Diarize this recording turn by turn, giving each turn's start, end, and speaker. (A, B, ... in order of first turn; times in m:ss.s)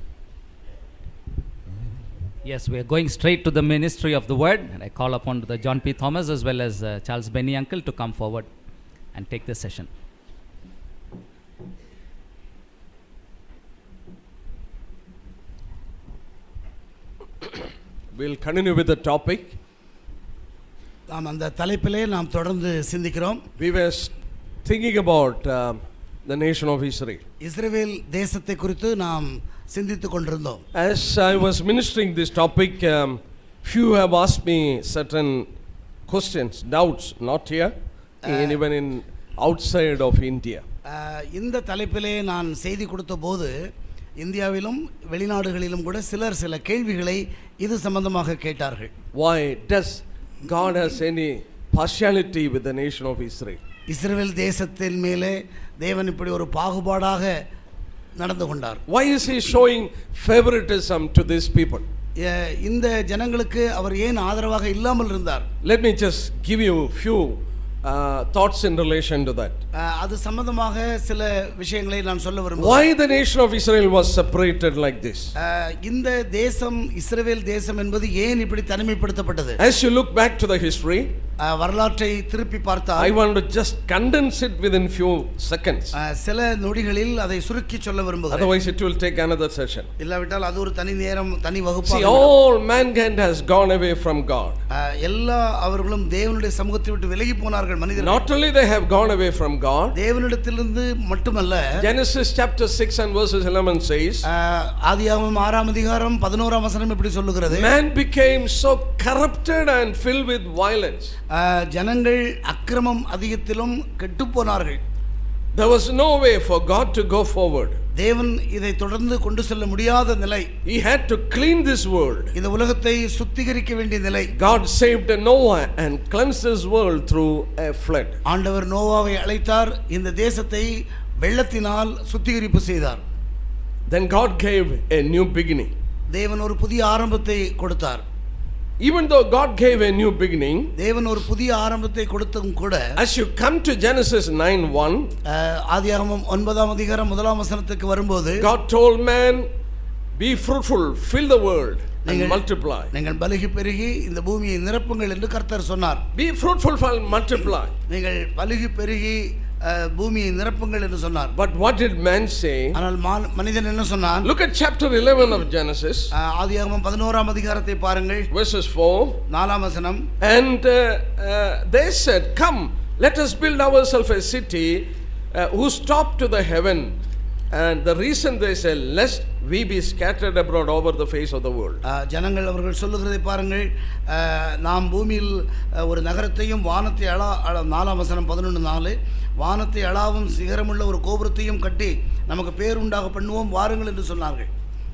0:02.4-0:08.5 A
0:09.1-0:09.9 A
0:18.1-0:19.5 B
0:21.1-0:23.4 C
0:23.6-0:24.1 B
0:24.6-0:27.2 B
0:27.4-0:30.6 C
0:30.7-0:35.5 B
0:36.1-0:40.6 B
0:38.3-0:38.6 C
0:40.8-0:43.5 C
0:44.2-0:48.9 C
0:49.1-0:53.6 B
0:53.9-0:57.3 C
0:58.2-0:58.8 C
0:58.9-1:01.8 B
1:02.2-1:05.4 C
1:05.6-1:09.6 B
1:09.7-1:12.8 C
1:12.6-1:15.3 B
1:15.4-1:19.6 C
1:19.6-1:21.1 B
1:21.4-1:23.1 C
1:23.0-1:25.9 B
1:25.9-1:28.5 C
1:28.3-1:29.9 B
1:30.0-1:32.3 C
1:31.8-1:34.6 B
1:34.7-1:38.2 C
1:38.0-1:39.9 B
1:39.9-1:41.6 C
1:41.8-1:44.2 B
1:44.2-1:47.7 C
1:47.5-1:51.1 B
1:51.3-1:54.8 C
1:55.5-1:57.8 B
1:58.0-2:00.5 C
2:00.6-2:02.3 B
2:02.3-2:04.3 C
2:04.3-2:08.2 B
2:08.2-2:13.0 C
2:13.9-2:15.7 B
2:16.1-2:18.0 C
2:18.8-2:20.7 B
2:20.8-2:22.8 C
2:23.0-2:25.1 B
2:25.3-2:28.5 C
2:28.4-2:29.4 B
2:30.2-2:32.9 B
2:32.0-2:36.0 C
2:36.1-2:37.7 B
2:37.9-2:41.3 C
2:41.3-2:42.8 B
2:42.7-2:44.3 C
2:44.2-2:46.1 B
2:46.1-2:48.3 C
2:48.3-2:49.2 B
2:49.3-2:50.0 C
2:50.2-2:57.0 B
2:57.5-3:01.8 B
3:01.8-3:14.5 C